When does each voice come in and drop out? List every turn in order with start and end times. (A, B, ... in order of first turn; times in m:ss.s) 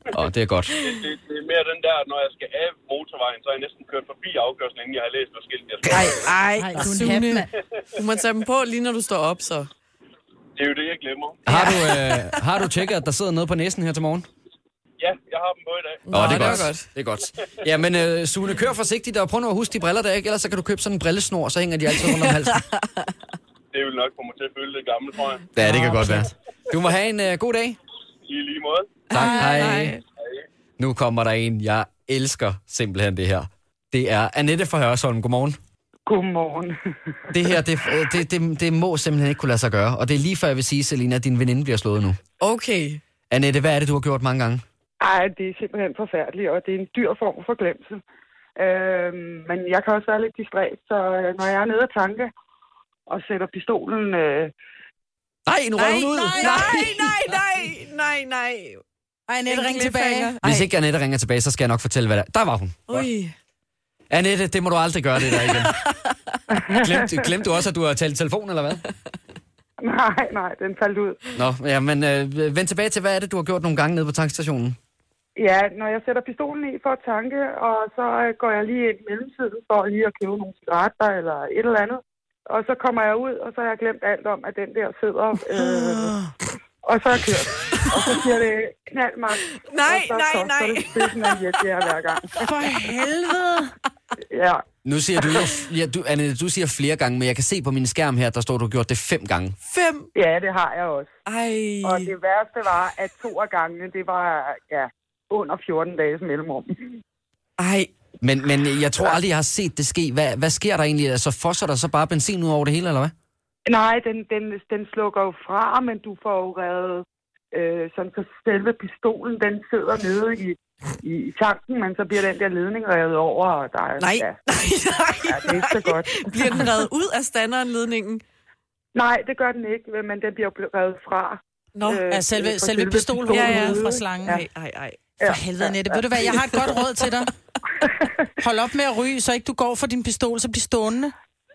0:00.1-0:00.8 A
0:00.8-0:06.2 B
0:05.9-0:07.4 C
0:06.6-0:07.5 D
0:07.9-0:09.7 C
0:10.6-0:11.7 B
0:11.5-0:14.2 A
0:11.5-0:12.3 C
0:15.0-0:16.6 B
0:16.0-0:16.9 C
0:16.1-0:22.6 A
0:22.0-0:23.1 C
0:23.7-0:25.5 B
0:25.6-0:27.8 A
0:25.6-0:26.2 C
0:28.3-0:29.0 B
0:29.1-0:30.0 C
0:29.1-0:30.0 A
0:29.1-0:29.7 D
0:30.8-0:35.6 A
0:36.1-0:36.8 E
0:37.3-0:42.2 A
0:42.4-0:43.0 C
0:43.3-0:44.6 A
0:45.0-0:48.0 E
0:48.6-0:52.3 E
0:53.1-0:54.5 E
0:55.5-0:57.2 A
0:55.8-0:58.8 C
0:55.9-0:56.6 D
0:59.3-1:00.3 D
0:59.5-1:00.7 C
1:00.4-1:03.1 A
1:02.9-1:03.3 C
1:04.1-1:05.8 A
1:05.3-1:06.2 C
1:06.5-1:07.1 E
1:06.8-1:08.8 A
1:09.8-1:11.3 E
1:11.3-1:14.8 A
1:15.4-1:26.2 E
1:25.7-1:26.3 D
1:26.8-1:32.2 E
1:29.6-1:31.3 C
1:32.4-1:33.7 D
1:34.3-1:34.6 E
1:34.8-1:39.6 A
1:35.2-1:35.5 E
1:39.7-1:40.1 C
1:40.1-1:41.1 E
1:41.2-1:42.1 C
1:41.8-1:46.9 E
1:47.6-1:47.9 C
1:48.2-1:53.1 A
1:53.7-2:04.4 E
2:04.0-2:08.2 C
2:05.3-2:06.3 E
2:08.9-2:14.4 E
2:11.8-2:12.0 C
2:12.1-2:14.4 D
2:13.3-2:15.2 C
2:15.2-2:16.6 E
2:15.2-2:17.3 D
2:16.2-2:16.9 C
2:17.8-2:18.1 E
2:18.4-2:21.1 D